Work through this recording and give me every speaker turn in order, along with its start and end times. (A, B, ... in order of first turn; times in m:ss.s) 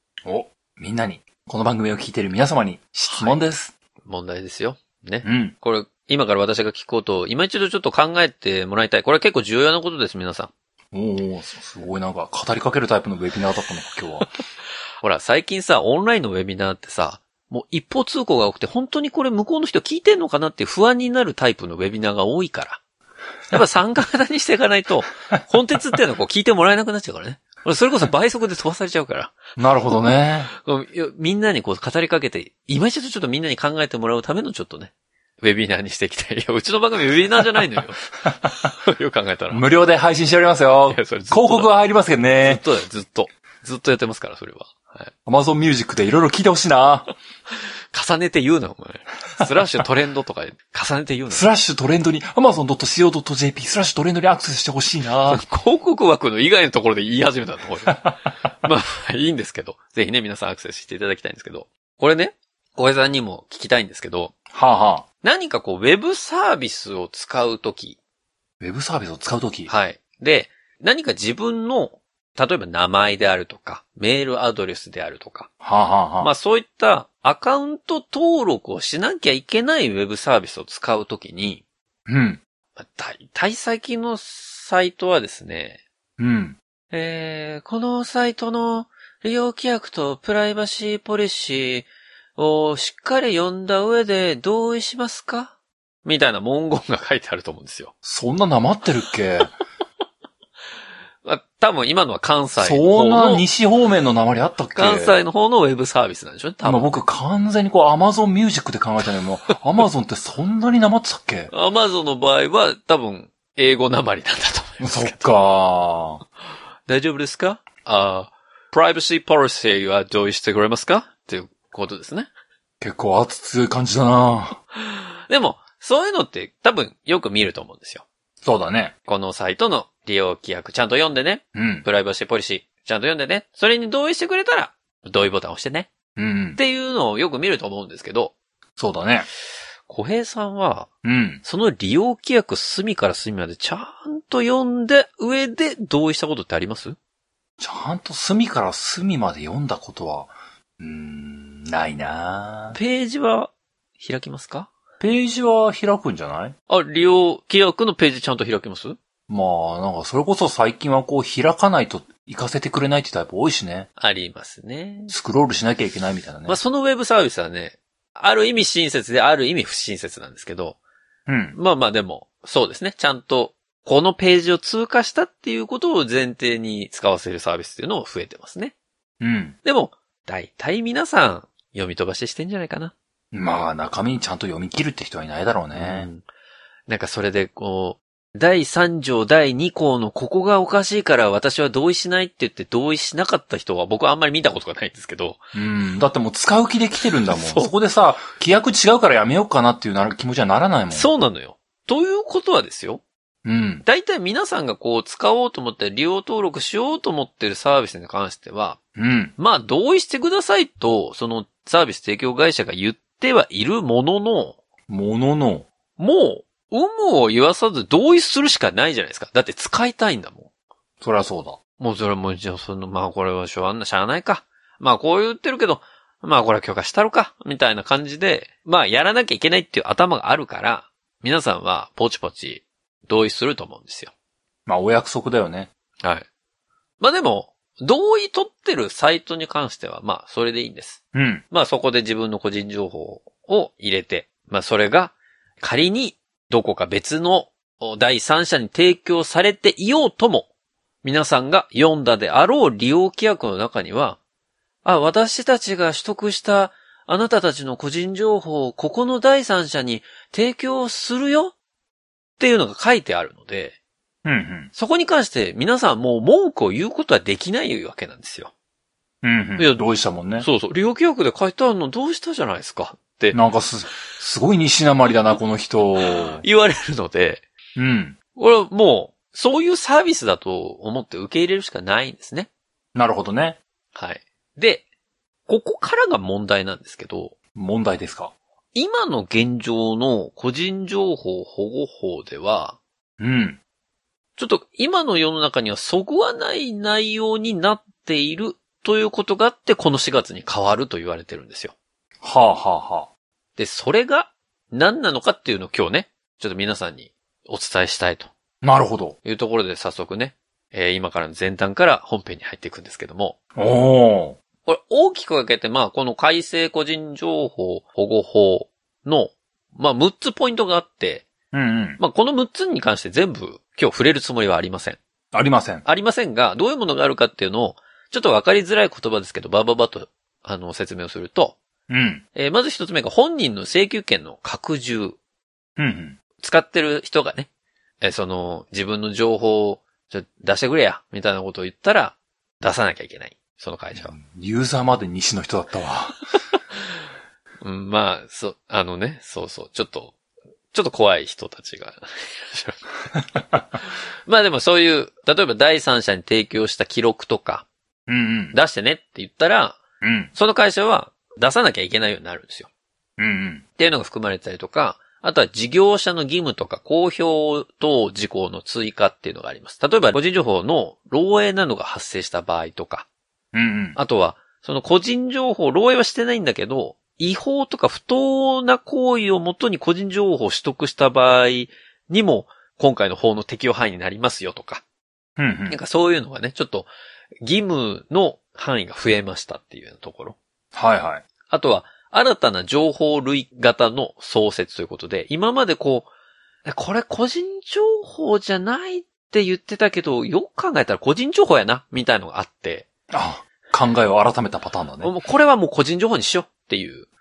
0:00.2-0:03.7 A
0:03.1-0:03.4 B
0:04.0-0:10.5 B
0:05.2-0:05.5 A
0:10.9-0:14.3 A
0:15.0-0:22.8 B
0:23.5-0:29.4 B
0:29.6-0:30.5 A
0:30.5-0:38.0 B
0:38.6-0:39.6 B
0:39.5-0:42.6 A
0:40.9-0:41.7 B
0:42.4-0:45.1 B
0:45.2-0:47.1 A
0:47.9-0:51.5 B
0:51.3-0:55.4 A
0:55.3-0:58.0 B
0:58.6-1:04.3 B
1:04.5-1:05.0 A
1:05.2-1:08.0 B
1:08.6-1:09.7 A
1:09.7-1:15.5 B
1:15.6-1:16.3 A
1:16.2-1:21.6 B
1:22.1-1:22.4 A
1:22.8-1:25.8 B
1:26.2-1:26.6 A
1:26.9-1:37.9 B
1:38.0-1:39.5 A
1:41.2-1:43.4 B
1:42.6-1:45.2 A
1:44.8-1:46.9 B
1:46.6-1:51.5 A
1:51.5-1:55.3 B
1:54.8-1:56.2 A
1:56.9-2:02.3 B
2:02.8-2:04.6 A
2:04.8-2:08.0 B
2:08.4-2:08.9 A
2:09.0-2:15.9 B
2:11.5-2:11.8 A
2:16.2-2:16.6 A
2:16.6-2:18.3 B
2:18.8-2:19.3 A
2:19.9-2:20.9 B
2:21.0-2:21.4 A
2:21.4-2:27.0 B
2:27.6-2:32.8 A
2:32.7-2:34.7 B
2:35.0-2:36.5 A
2:36.7-2:39.0 B
2:39.3-2:43.9 A
2:44.0-2:45.1 B
2:45.1-2:46.6 A
2:46.4-2:50.8 B
2:51.3-2:51.6 A
2:51.5-2:58.7 B
2:59.2-2:59.6 A
2:59.6-3:02.9 B
3:03.3-3:06.1 A
3:05.7-3:06.2 B
3:06.9-3:15.4 B
3:15.5-3:21.1 A
3:17.3-3:17.7 B
3:20.9-3:23.0 B
3:23.4-3:23.8 A
3:23.8-3:28.8 B
3:29.0-3:29.3 A
3:29.4-3:34.6 B
3:34.9-3:35.7 A
3:36.0-3:40.5 B
3:41.0-3:41.6 A
3:41.8-3:54.1 B
3:54.6-3:55.7 A
3:57.0-4:01.0 B
4:01.1-4:01.4 A
4:01.5-4:10.5 B
4:11.0-4:14.2 B
4:14.8-4:21.5 B
4:22.4-4:23.8 B
4:24.2-4:24.7 A
4:24.7-4:28.5 B
4:29.2-4:30.5 A
4:29.6-4:29.8 B
4:30.4-4:33.4 B
4:33.3-4:36.4 A
4:36.0-4:37.4 B
4:37.8-4:38.2 A
4:38.4-4:42.5 B
4:42.9-4:43.6 A
4:43.9-4:44.8 B
4:45.5-4:47.3 B
4:47.5-4:48.3 A
4:48.7-4:52.8 B
4:53.2-4:53.6 A
4:54.4-5:01.7 B
5:02.2-5:03.1 A
5:03.6-5:08.3 B
5:08.6-5:09.2 A
5:09.2-5:13.4 B
5:13.6-5:14.4 A
5:14.6-5:21.3 B
5:21.5-5:22.0 A
5:22.0-5:25.0 B
5:25.3-5:25.8 A
5:25.8-5:31.6 B
5:31.9-5:32.2 A
5:32.3-5:35.2 B
5:35.8-5:36.2 A
5:36.4-5:37.5 B
5:38.0-5:44.1 B
5:43.9-5:46.2 A
5:47.6-5:50.1 B
5:50.7-5:52.8 B
5:53.4-5:57.6 B
5:58.1-5:58.6 A
5:58.5-5:59.8 B
6:00.0-6:00.3 A
6:00.3-6:02.7 B
6:03.2-6:03.6 A
6:03.8-6:13.0 B
6:13.5-6:14.0 A
6:14.0-6:24.8 B
6:25.4-6:25.8 A
6:25.7-6:26.9 B
6:27.4-6:30.4 B
6:30.7-6:31.2 A
6:31.5-6:36.1 B
6:36.6-6:42.9 B
6:43.1-6:45.1 A
6:45.0-6:47.1 B